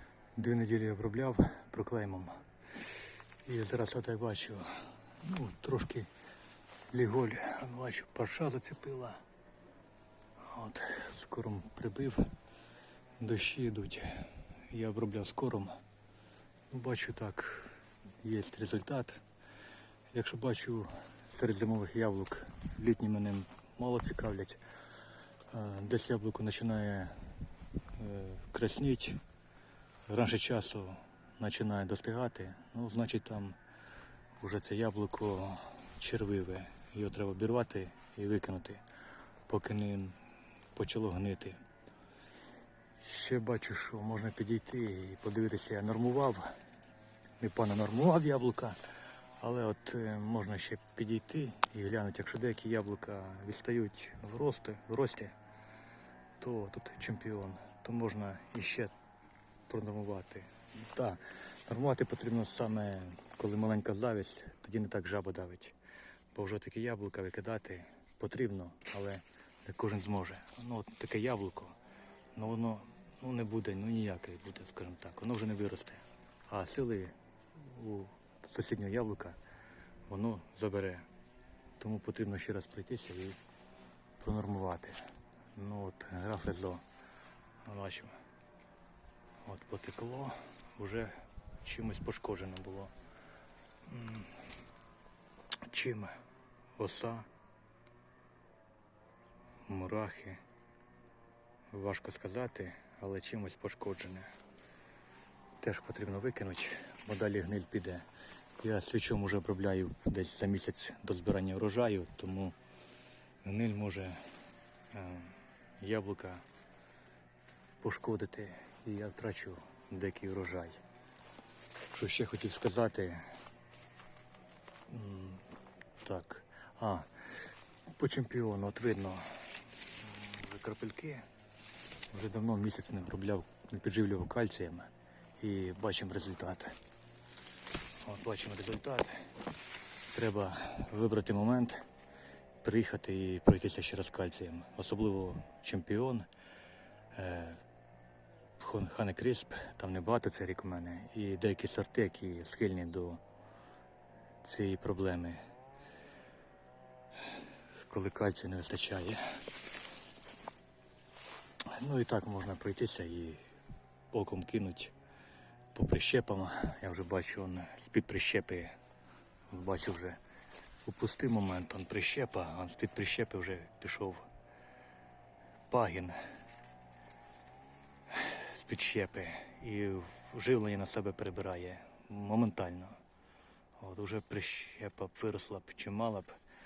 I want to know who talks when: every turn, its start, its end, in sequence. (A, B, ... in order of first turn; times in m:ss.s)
0:00.4-0:02.4 A
0:03.4-0:06.1 A
0:06.9-0:09.2 A
0:10.4-0:12.3 A
0:13.2-0:15.8 A
0:16.7-0:19.2 A
0:20.1-0:24.6 A
0:25.5-0:27.3 A
0:27.9-0:29.2 A
0:30.1-0:33.6 A
0:34.4-0:38.8 A
0:39.5-0:40.2 A
0:40.7-0:41.6 A
0:43.0-0:46.5 A
0:47.4-0:48.8 A
0:49.4-0:55.3 A
0:56.4-0:58.9 A
0:59.7-1:05.8 A
1:06.3-1:11.8 A
1:12.3-1:19.4 A
1:20.1-1:21.1 A
1:21.8-1:23.4 A
1:24.2-1:26.8 A
1:27.6-1:28.2 A
1:29.4-1:32.9 A
1:33.8-1:34.4 A
1:35.6-1:36.2 A
1:36.8-1:37.3 A
1:39.6-1:40.4 A
1:41.7-1:44.3 A
1:45.6-1:48.0 A
1:48.6-1:52.6 A
1:53.4-1:54.3 A
1:54.9-1:56.4 A
1:57.8-2:00.8 A
2:01.9-2:03.3 A
2:04.9-2:05.4 A
2:06.0-2:07.3 A
2:07.9-2:11.2 A
2:12.1-2:16.8 A
2:18.0-2:19.3 A
2:20.1-2:21.8 A
2:22.6-2:26.3 A
2:27.1-2:27.6 A
2:28.6-2:33.2 A
2:34.4-2:35.4 A
2:37.8-2:39.2 A
2:41.7-2:43.4 A
2:44.1-2:44.9 A
2:45.7-2:48.8 A
2:49.5-2:50.2 A
2:50.8-2:54.3 A
2:55.7-2:56.2 A
2:58.1-3:03.0 A
3:03.8-3:06.4 A